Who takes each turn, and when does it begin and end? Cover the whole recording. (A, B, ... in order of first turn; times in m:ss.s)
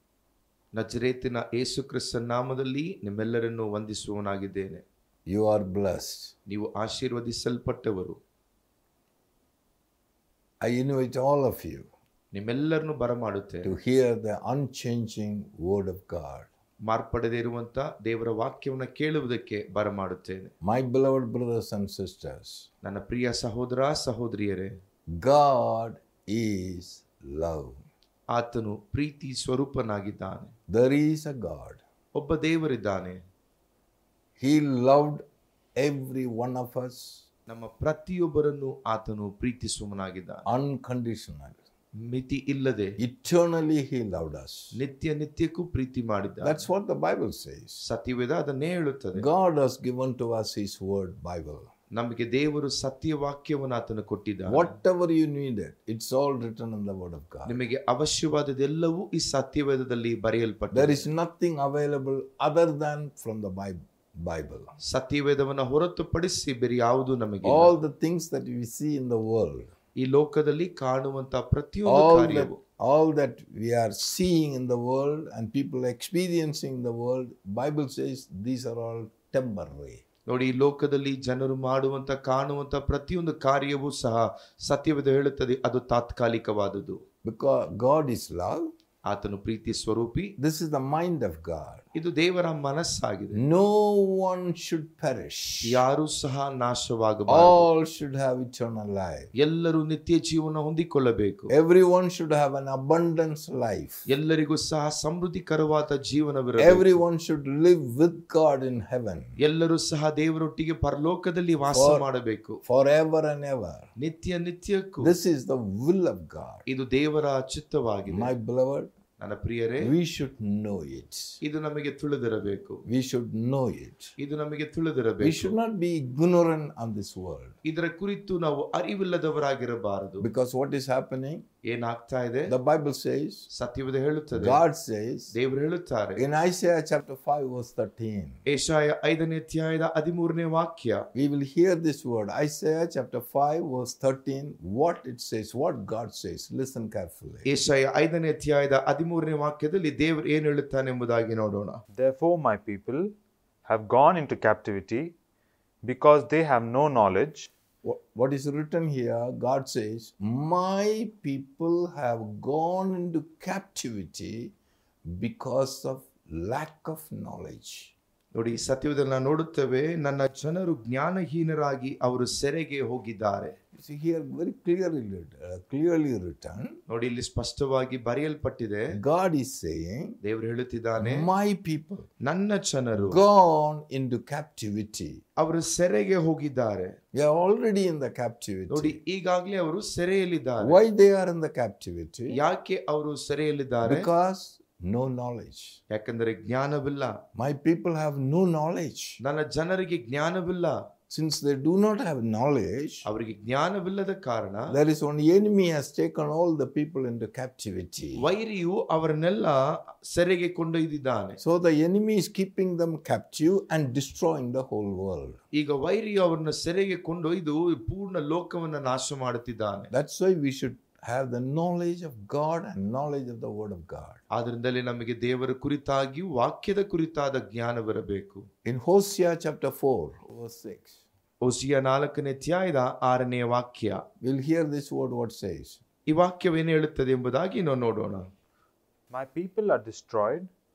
0:00.7-0:04.8 A
0:05.3-0:06.3 B
0:06.5-0:08.2 A
0:10.6-0:11.9 B
0:12.3-0:13.7 A
0:13.6-0:16.5 B
0:16.8-0:20.5 A
0:20.6-0:22.7 B
0:22.8-0:24.8 A
0:25.1-0:27.8 B
0:28.3-0:30.5 A
0:30.7-0:31.8 B
0:32.1-0:33.2 A
0:34.4-0:35.2 B
0:35.8-0:37.2 B
0:37.5-0:40.4 A
0:40.4-0:41.6 B
0:41.9-0:43.0 A
0:43.0-0:44.8 B
0:44.7-0:46.6 A
0:46.4-0:47.8 B
0:47.8-0:49.3 A
0:49.1-0:51.7 B
0:51.9-0:54.7 A
0:54.4-0:57.6 B
0:57.5-1:01.1 A
1:00.7-1:04.7 B
1:04.8-1:07.7 A
1:07.4-1:09.7 B
1:10.0-1:12.6 A
1:11.8-1:20.0 B
1:20.3-1:27.0 A
1:27.2-1:28.7 B
1:29.0-1:30.4 A
1:30.4-1:31.8 B
1:31.9-1:33.4 A
1:33.3-1:35.8 B
1:35.6-1:37.6 A
1:37.3-1:39.3 B
1:39.4-1:41.5 A
1:41.5-1:44.1 B
1:44.1-1:47.0 A
1:46.6-1:49.4 B
1:49.4-1:52.6 A
1:51.7-1:52.0 B
1:52.6-1:53.9 B
1:54.0-1:55.2 A
1:55.0-1:56.6 B
1:56.7-1:58.3 A
1:58.1-1:58.9 B
1:59.2-1:59.9 A
1:59.8-2:01.4 B
2:01.4-2:02.8 A
2:02.8-2:04.1 B
2:04.2-2:05.5 A
2:05.2-2:07.6 B
2:07.6-2:10.3 A
2:10.2-2:11.4 B
2:11.6-2:12.5 A
2:12.5-2:13.5 B
2:13.5-2:14.6 A
2:14.3-2:15.3 B
2:15.3-2:16.2 A
2:16.2-2:18.4 B
2:18.5-2:21.1 A
2:21.1-2:27.5 B
2:27.4-2:31.8 A
2:31.9-2:35.1 C
2:35.8-2:37.5 C
2:37.8-2:44.5 B
2:45.0-2:47.9 B
2:48.3-2:53.6 A
2:53.7-2:56.8 B
2:56.9-2:58.9 A
2:58.9-3:00.2 B
3:00.2-3:01.3 A
3:01.0-3:02.1 B
3:02.2-3:03.2 A
3:03.0-3:05.2 B
3:05.4-3:07.0 A
3:07.1-3:09.0 B
3:08.7-3:10.8 A
3:10.6-3:12.4 B
3:12.3-3:14.1 A
3:13.8-3:15.8 B
3:15.9-3:17.2 A
3:17.3-3:19.2 B
3:19.2-3:20.8 A
3:21.1-3:23.1 B
3:23.0-3:24.8 A
3:24.7-3:28.3 B
3:28.2-3:31.4 A
3:31.4-3:35.4 B
3:35.5-3:39.9 A
3:39.9-3:44.2 B
3:44.3-3:48.5 A
3:48.6-3:51.0 B
3:51.4-3:54.0 A
3:54.2-3:55.8 B
3:56.1-3:58.3 A
3:59.1-4:00.5 C